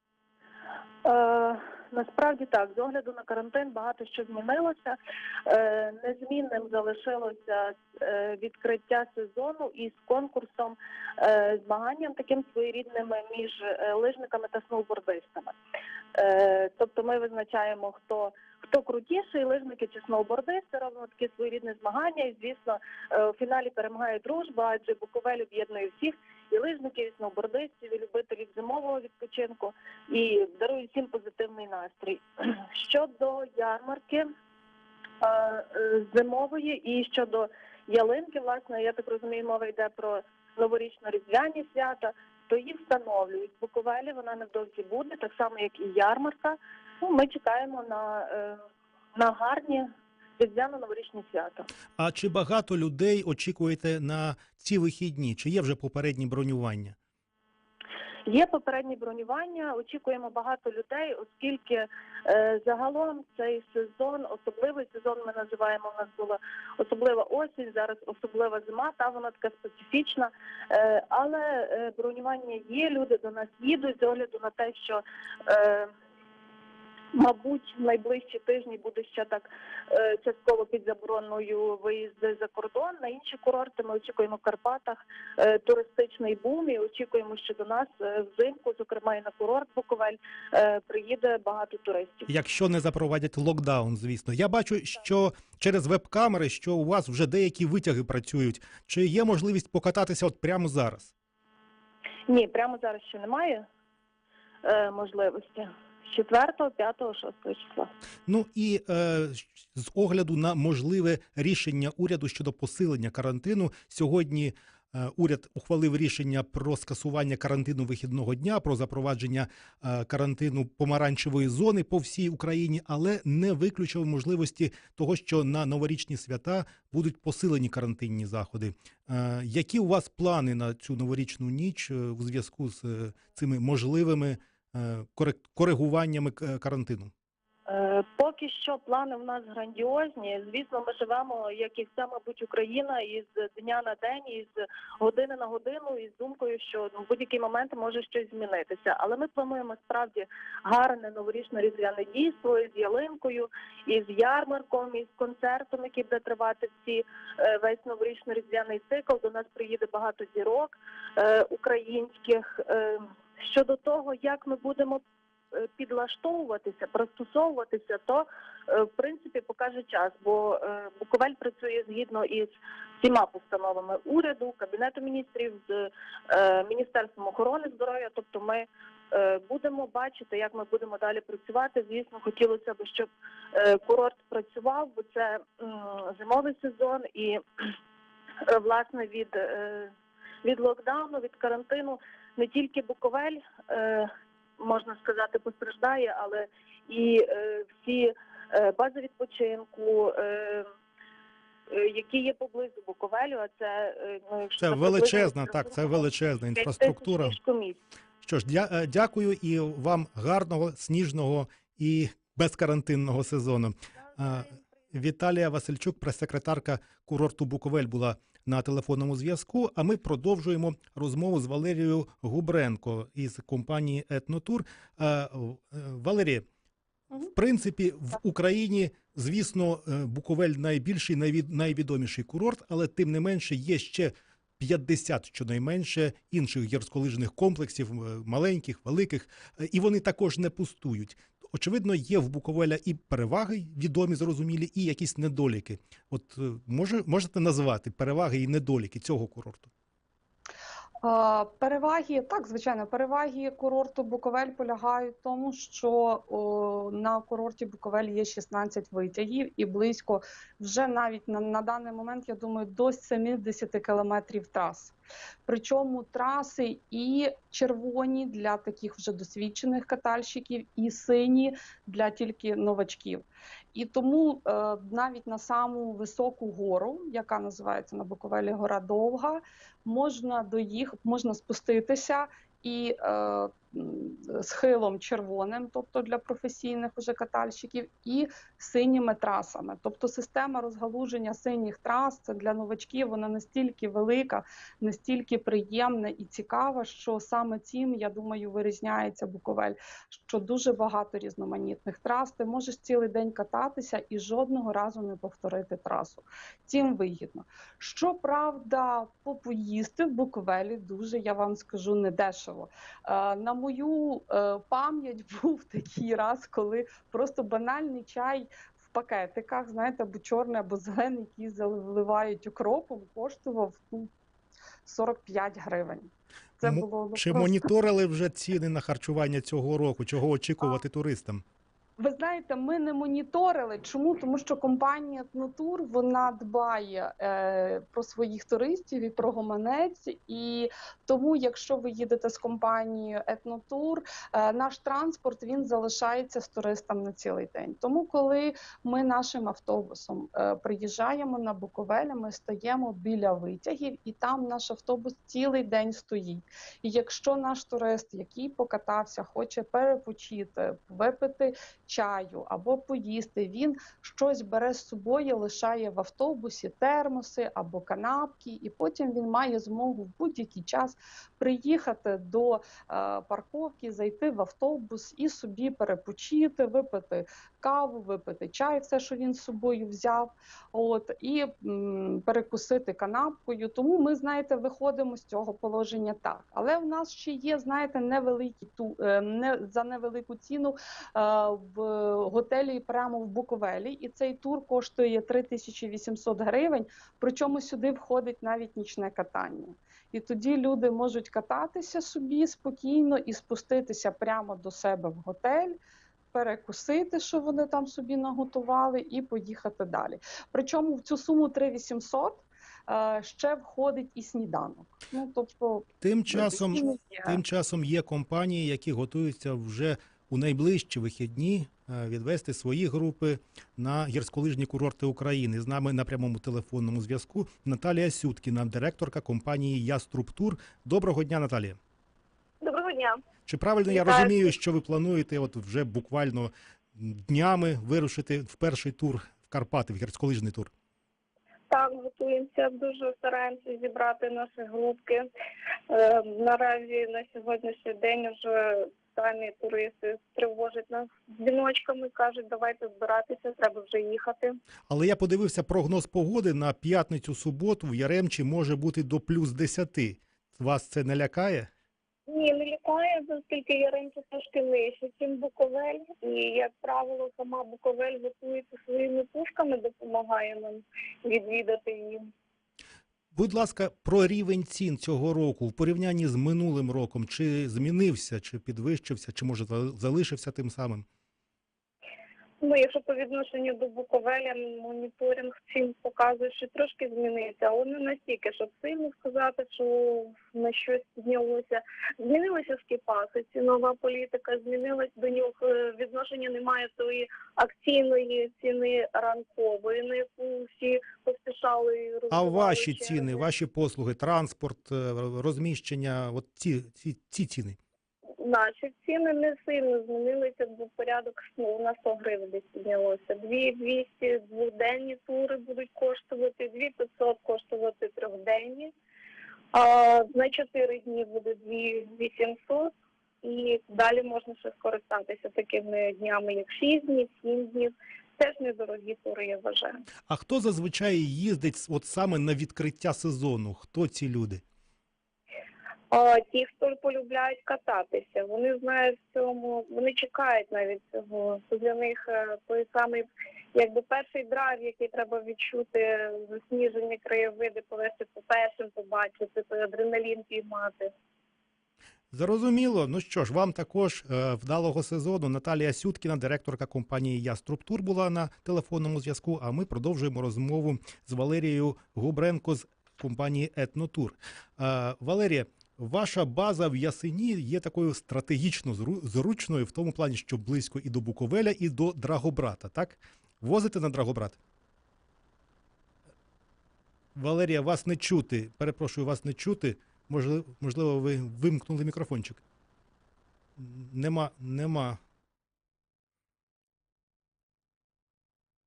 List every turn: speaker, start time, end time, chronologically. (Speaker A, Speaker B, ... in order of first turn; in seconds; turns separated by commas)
Speaker A: 1.0-15.6, Speaker A: 16.2-34.2, Speaker A: 35.2-48.6, Speaker A: 49.1-49.9, Speaker A: 50.4-51.7, Speaker B: 52.0-57.0, Speaker A: 58.3-75.9, Speaker A: 77.1-92.3, Speaker B: 92.3-101.1, Speaker A: 102.3-103.6, Speaker A: 104.6-107.9, Speaker B: 108.3-137.1, Speaker A: 137.7-172.5, Speaker A: 173.0-187.4, Speaker A: 188.5-189.9, Speaker A: 190.4-200.7, Speaker A: 201.7-206.0, Speaker B: 204.6-207.4, Speaker A: 206.6-207.8, Speaker B: 208.2-226.4, Speaker B: 227.3-249.7, Speaker C: 251.0-324.1, Speaker C: 324.8-327.7, Speaker B: 326.6-331.4, Speaker C: 332.0-405.8, Speaker C: 406.3-417.4, Speaker B: 416.0-431.8, Speaker D: 432.6-433.2, Speaker B: 433.5-440.7, Speaker D: 433.9-434.3, Speaker D: 441.7-445.3, Speaker D: 445.9-454.6, Speaker B: 454.9-461.7, Speaker D: 462.3-472.3, Speaker B: 473.3-481.1, Speaker D: 482.6-503.5, Speaker B: 502.3-507.8, Speaker D: 508.4-518.9, Speaker D: 519.7-522.9, Speaker D: 523.4-530.0, Speaker B: 530.3-534.6, Speaker D: 536.1-551.1, Speaker B: 552.3-574.6, Speaker B: 577.4-582.6, Speaker B: 583.8-585.2